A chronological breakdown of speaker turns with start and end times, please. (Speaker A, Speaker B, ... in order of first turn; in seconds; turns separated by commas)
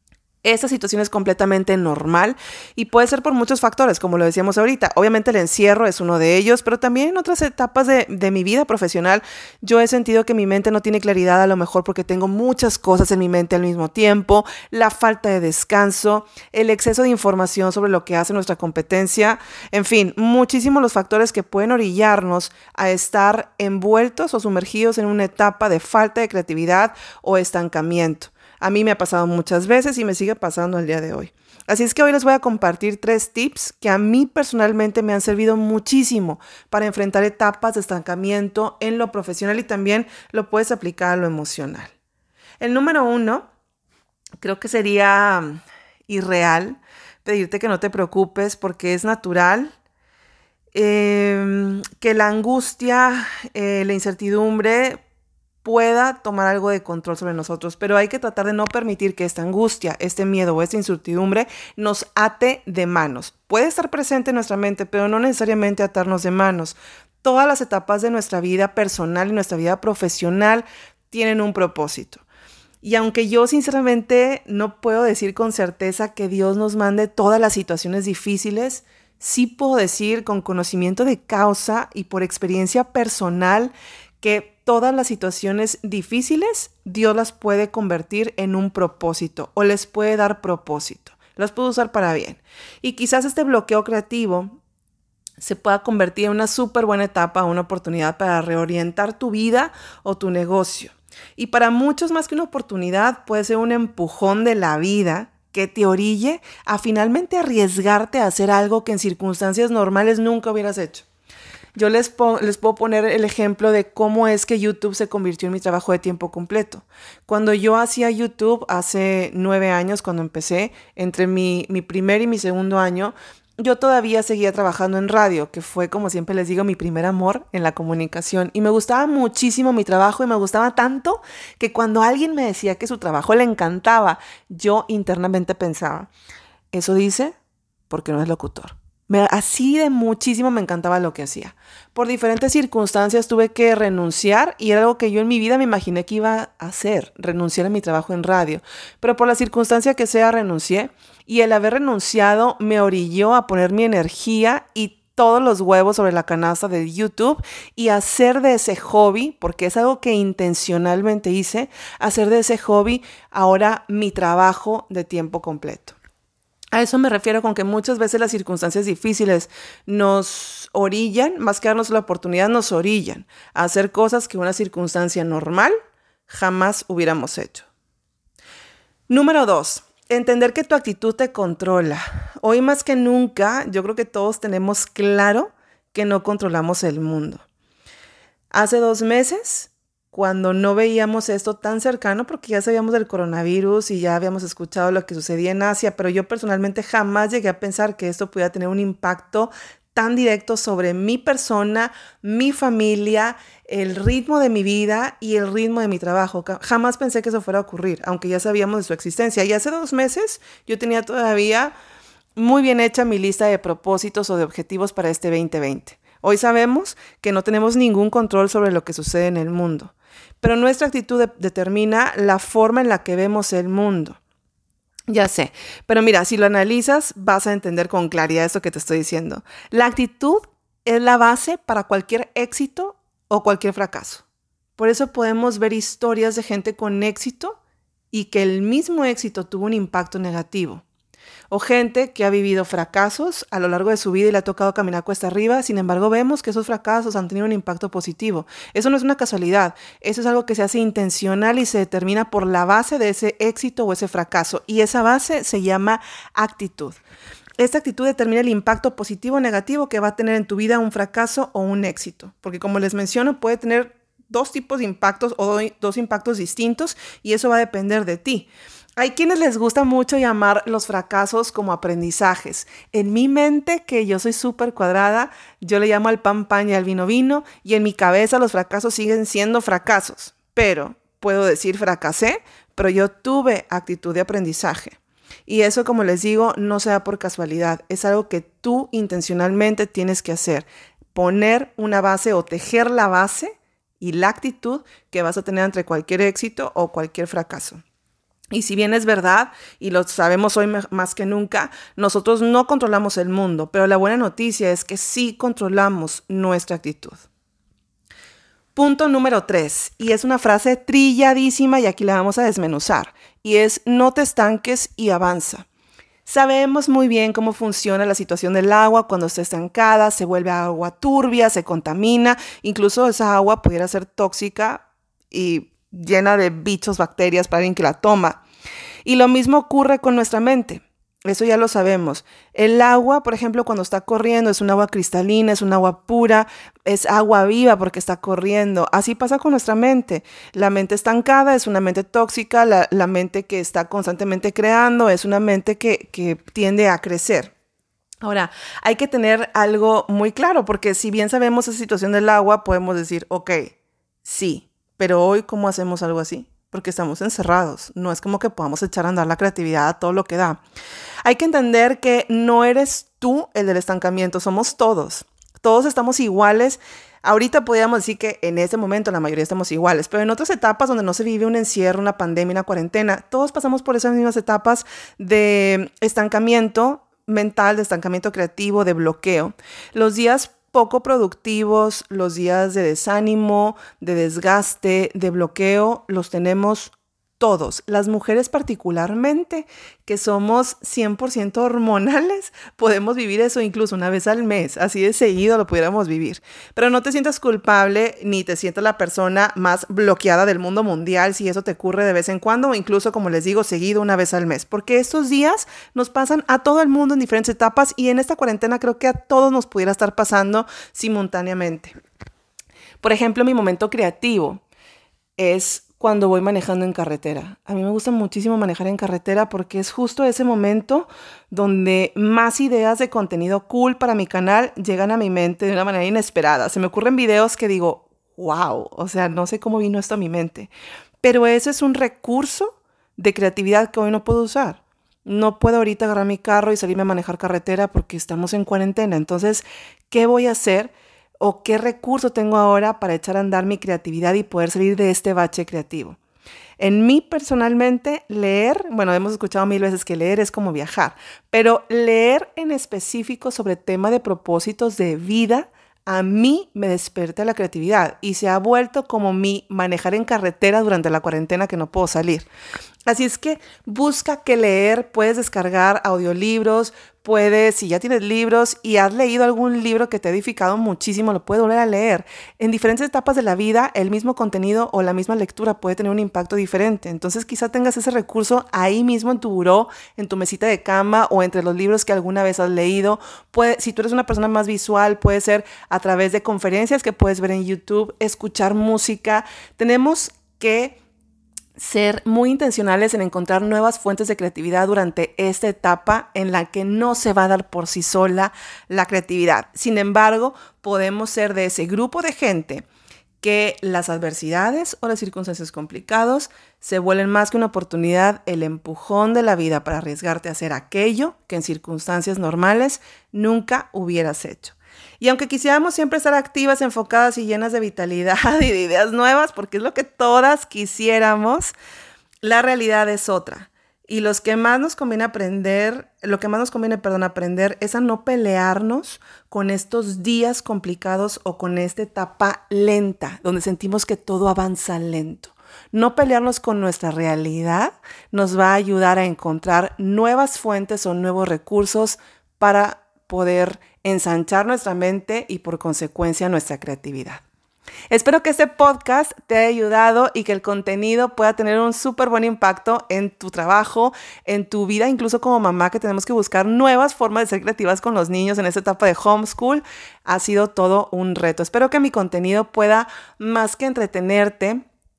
Speaker A: 0.4-41.9, Speaker A: 42.6-43.5, Speaker A: 44.4-49.7, Speaker A: 50.7-55.0, Speaker A: 55.6-72.2, Speaker A: 72.8-94.6, Speaker A: 95.4-111.1, Speaker A: 111.8-136.1, Speaker A: 136.7-137.3, Speaker A: 137.9-166.0, Speaker A: 166.7-175.7, Speaker A: 176.3-177.7, Speaker A: 179.1-187.4, Speaker A: 188.5-211.7, Speaker A: 212.4-224.2, Speaker A: 225.1-234.2, Speaker A: 234.8-237.6, Speaker A: 238.1-240.8, Speaker A: 241.5-257.0, Speaker A: 257.6-297.8, Speaker A: 298.5-307.3, Speaker A: 308.8-315.7, Speaker A: 316.3-328.4, Speaker A: 329.1-347.5, Speaker A: 348.2-360.6, Speaker A: 361.2-411.9, Speaker A: 413.0-414.6, Speaker A: 415.4-430.7, Speaker A: 431.2-446.2, Speaker A: 446.8-462.5, Speaker A: 463.1-491.0, Speaker A: 491.8-502.9, Speaker A: 503.4-521.7, Speaker A: 522.4-547.4, Speaker A: 548.1-564.8